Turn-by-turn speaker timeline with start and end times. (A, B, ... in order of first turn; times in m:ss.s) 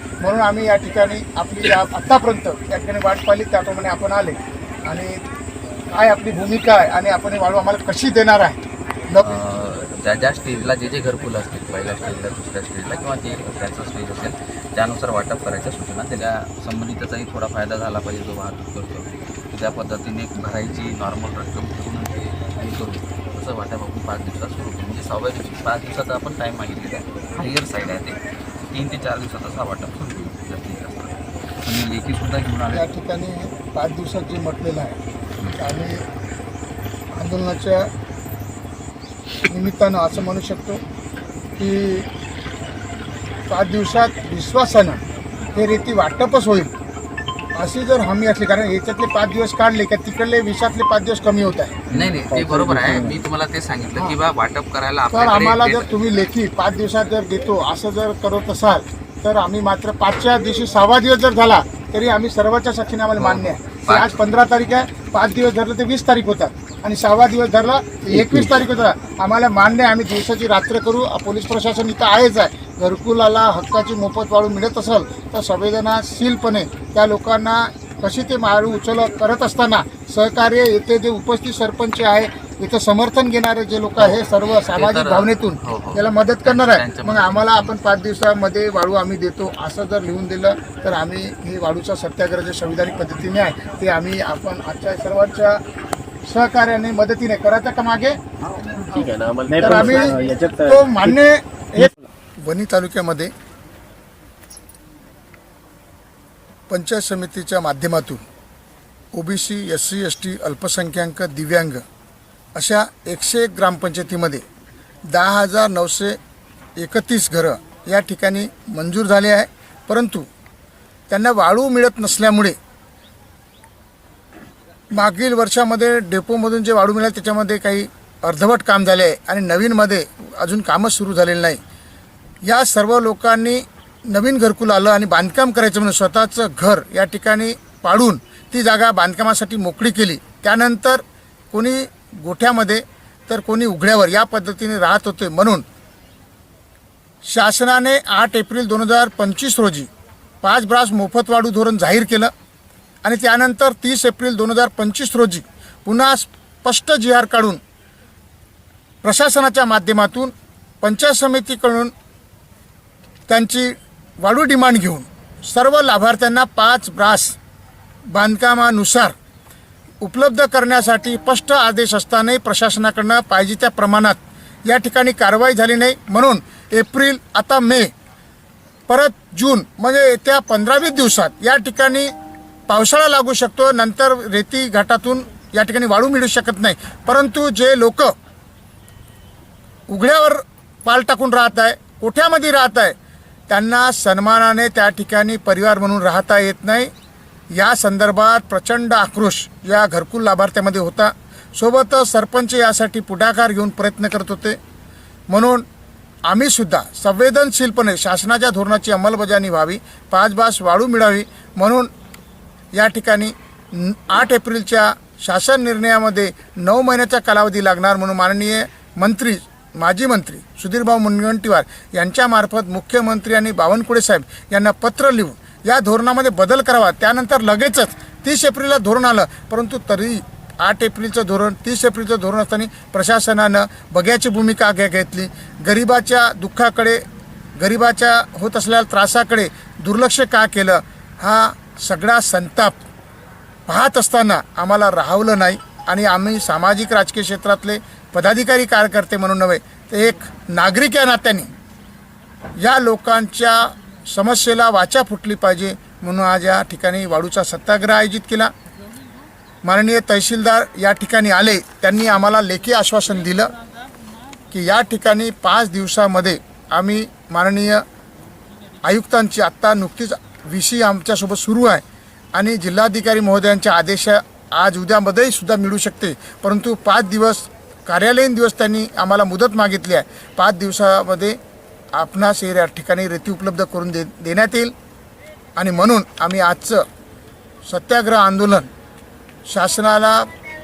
0:00.2-0:05.2 A
0:05.9-0:09.3 A
0:09.2-0:32.9 B
0:32.7-0:35.0 A
0:35.6-0:36.0 A
0:37.1-0:37.9 A
0:39.4-0:40.8 A
0:41.6-0:42.1 A
0:43.5-0:45.0 A
0:45.5-0:46.7 A
0:47.6-0:51.8 A
0:51.9-0:53.3 C
0:51.9-0:56.0 B
0:55.1-1:35.6 A
1:03.2-1:04.2 B
1:08.2-1:08.5 C
1:24.0-1:27.7 B
1:36.3-1:38.2 A
1:38.6-1:41.2 C
1:39.6-1:43.3 A
1:41.8-1:42.1 C
1:46.7-1:48.2 A
1:49.1-1:51.8 A
1:52.6-1:54.4 A
1:55.1-1:56.2 A
1:56.8-2:00.3 A
2:01.1-2:02.6 A
2:04.9-2:11.6 A
2:12.5-2:25.6 A
2:27.3-2:29.9 A
2:30.4-2:32.3 A
2:33.0-2:37.6 A
2:39.0-2:41.9 A
2:43.3-2:47.4 A
2:48.1-2:49.2 A
2:50.0-2:57.9 A
2:58.9-3:02.1 A
3:02.7-3:08.1 A
3:09.9-3:13.0 A
3:13.5-3:16.9 A
3:17.6-3:24.6 A
3:25.3-3:25.6 A
3:26.3-3:31.9 A
3:32.8-3:57.0 A
3:57.6-4:02.8 A
4:03.7-4:11.5 A
4:12.6-4:18.5 A
4:19.6-4:23.5 A
4:24.5-4:27.8 A
4:28.8-4:31.8 A
4:32.3-4:41.4 A
4:42.0-4:44.7 A
4:45.6-4:46.9 A
4:47.7-4:48.7 A
4:49.5-4:50.3 A